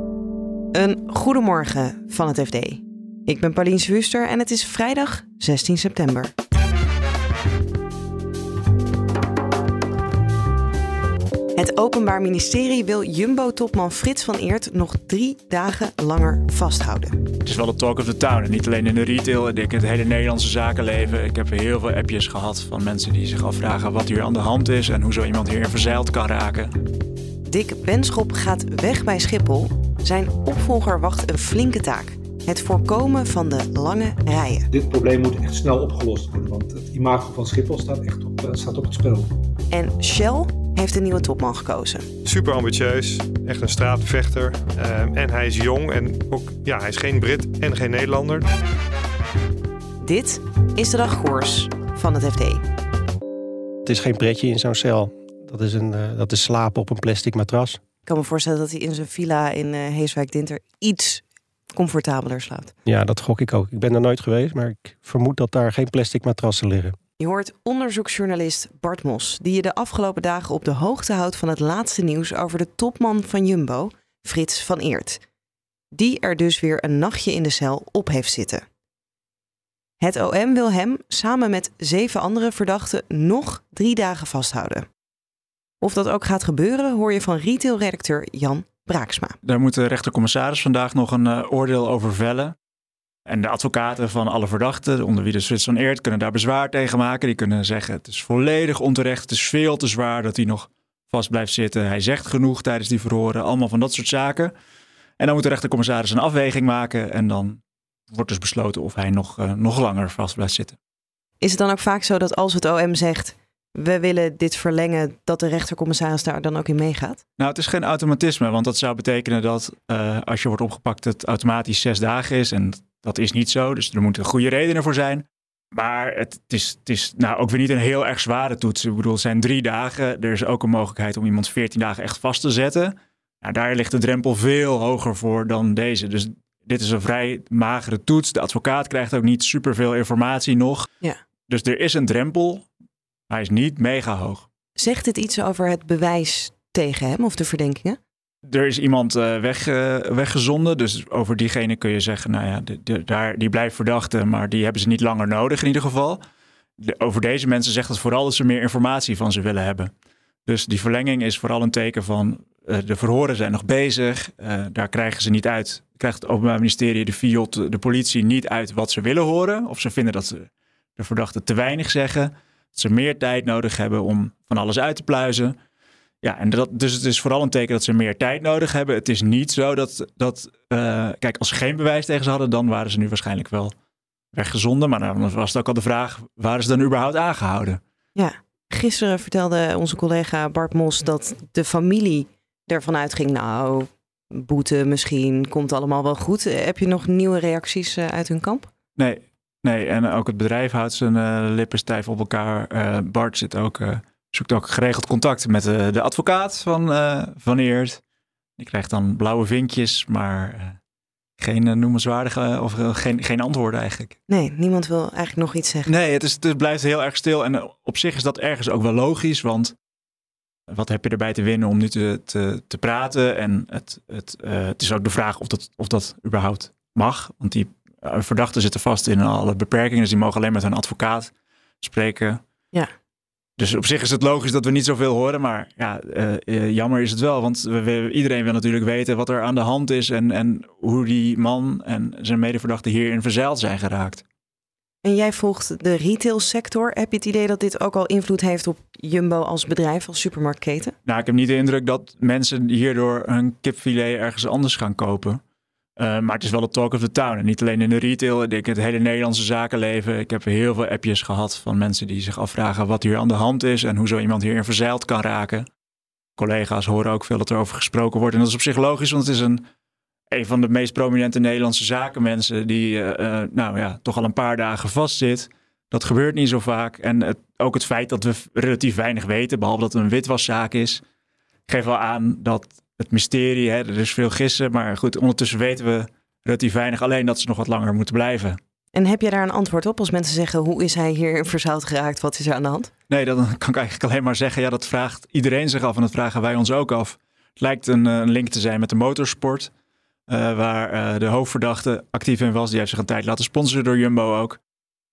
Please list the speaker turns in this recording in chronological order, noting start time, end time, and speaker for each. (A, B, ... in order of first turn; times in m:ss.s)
0:00.7-0:06.3 A
0:11.6-0:17.1 A
0:17.4-0:26.7 B
0:27.4-0:34.7 A
0:34.7-0:39.3 C
0:39.7-0:42.0 A
0:42.2-0:48.5 D
0:50.0-0:52.6 A
0:53.8-0:57.8 E
0:58.0-1:02.7 A
1:02.8-1:06.9 E
1:07.2-1:15.2 A
1:15.9-1:18.6 A
1:20.0-1:24.8 A
1:25.8-1:29.4 A
1:29.4-1:32.5 B
1:33.3-1:44.5 B
1:45.2-1:50.8 B
1:51.4-1:57.2 A
1:57.4-2:20.9 B
2:21.5-2:22.7 B
2:23.3-2:24.4 B
2:24.8-2:28.0 A
2:28.4-2:36.2 B
2:36.8-2:39.9 B
2:40.4-2:55.5 B
2:56.2-3:03.7 B
3:04.3-3:07.8 B
3:08.1-3:18.7 A
3:19.0-3:28.0 B
3:28.6-3:30.8 B
3:31.4-3:34.2 B
3:34.3-3:35.9 A
3:35.9-3:39.7 B
3:40.7-3:52.4 B
3:53.6-4:04.2 B
4:05.0-4:11.0 A
4:11.0-4:15.4 B
4:16.0-4:25.7 B
4:26.4-4:29.6 B
4:30.3-4:41.0 B
4:41.7-4:48.6 B
4:48.9-4:52.9 A
4:53.1-4:59.7 B
5:00.3-5:04.6 B